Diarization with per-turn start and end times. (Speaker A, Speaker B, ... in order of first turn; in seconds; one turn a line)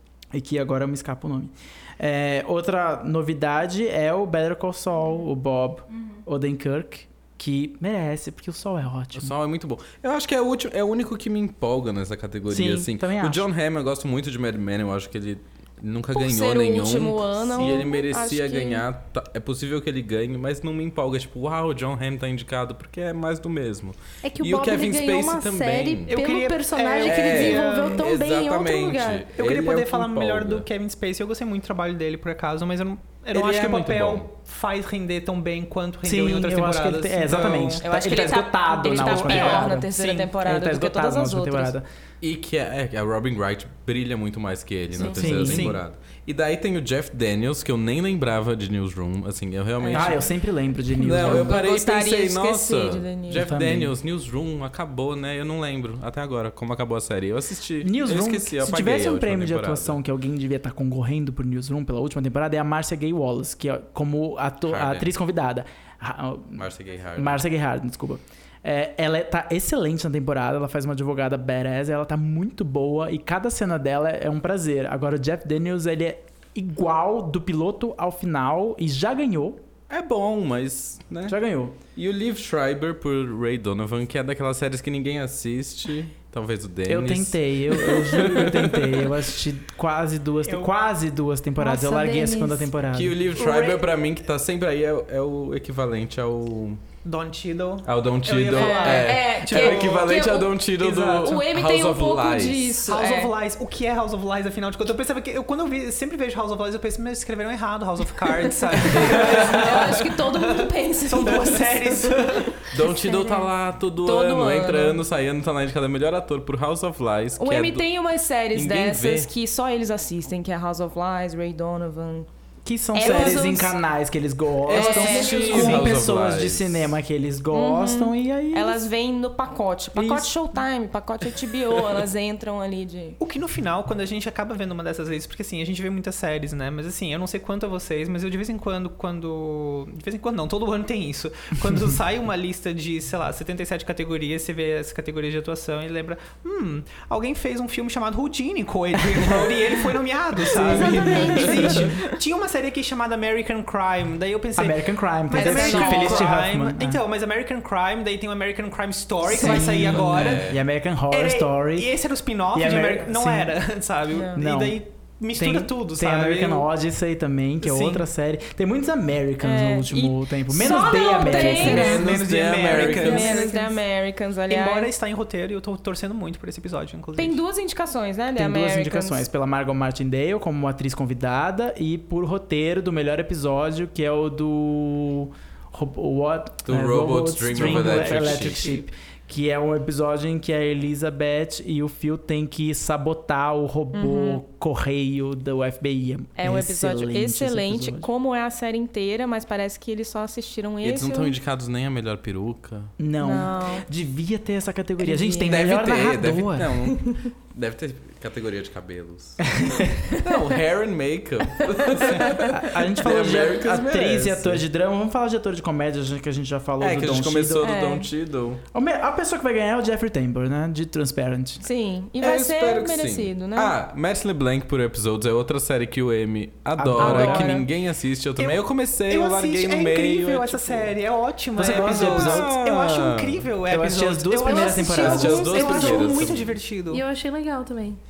Speaker A: 0.3-9.3
Speaker B: 9.2-26.1
Speaker A: 12.5-13.5
Speaker C: 16.1-18.9
Speaker D: 17.6-17.9
Speaker E: 24.2-29.3
Speaker D: 26.1-28.1
Speaker B: 27.0-30.7
Speaker D: 29.3-38.2
Speaker B: 33.3-34.3
Speaker A: 36.0-41.9
Speaker C: 37.8-41.7
Speaker D: 38.9-40.3
Speaker B: 42.2-50.3
Speaker C: 45.0-45.2
Speaker A: 45.1-45.8
Speaker D: 45.4-45.8
Speaker C: 49.8-50.1
Speaker A: 49.9-51.6
Speaker B: 51.0-60.0
Speaker C: 51.1-53.4
Speaker A: 53.3-54.0
Speaker A: 57.8-79.6
Speaker B: 64.7-65.1
Speaker B: 66.6-67.4
Speaker B: 79.9-81.4
Speaker A: 81.3-81.8
Speaker B: 82.0-89.2
Speaker A: 86.9-93.2
Speaker D: 90.5-90.7
Speaker E: 91.6-92.7
Speaker B: 92.9-96.8
Speaker D: 93.4-93.8
Speaker D: 97.0-101.4
Speaker B: 97.8-102.8
Speaker C: 98.5-100.6
Speaker C: 101.2-103.3
Speaker D: 102.8-112.7
Speaker C: 108.8-113.5
Speaker B: 108.9-109.9
Speaker B: 112.7-117.9
Speaker C: 114.0-115.0
Speaker C: 117.4-122.3
Speaker B: 118.5-119.3
Speaker A: 122.7-128.9
Speaker C: 122.9-123.8
Speaker B: 124.7-127.0
Speaker C: 124.7-125.9
Speaker C: 127.5-133.2
Speaker A: 129.9-130.3
Speaker D: 133.2-160.6
Speaker B: 150.5-151.7
Speaker A: 150.5-151.4
Speaker E: 150.6-151.9
Speaker A: 154.6-157.0
Speaker C: 155.3-156.3
Speaker C: 159.3-159.6
Speaker A: 159.4-162.0
Speaker B: 159.9-160.6
Speaker D: 161.1-166.7
Speaker A: 162.5-163.6
Speaker C: 164.1-164.4
Speaker A: 164.3-172.1
Speaker D: 167.6-168.1
Speaker C: 169.4-172.1
Speaker D: 170.8-173.7
Speaker B: 171.3-173.5
Speaker C: 172.7-174.9
Speaker D: 174.5-177.4
Speaker C: 177.2-179.3
Speaker A: 178.4-198.1
Speaker B: 186.7-188.8
Speaker D: 188.2-188.7
Speaker C: 193.9-194.4
Speaker C: 196.4-201.3
Speaker B: 200.8-202.9
Speaker A: 203.0-206.9
Speaker C: 203.2-203.9
Speaker C: 205.0-205.6
Speaker B: 205.5-214.6
Speaker A: 209.5-210.0
Speaker C: 212.1-212.5
Speaker A: 212.5-217.7
Speaker B: 216.8-218.6
Speaker C: 217.6-218.1
Speaker A: 218.7-221.6
Speaker C: 221.6-223.8
Speaker B: 222.2-230.9
Speaker A: 226.8-227.6
Speaker C: 227.0-227.6
Speaker D: 228.4-237.0
Speaker A: 231.6-232.5
Speaker B: 231.6-233.5
Speaker A: 233.7-236.0
Speaker E: 234.4-236.3
Speaker B: 234.8-236.6
Speaker E: 236.9-238.0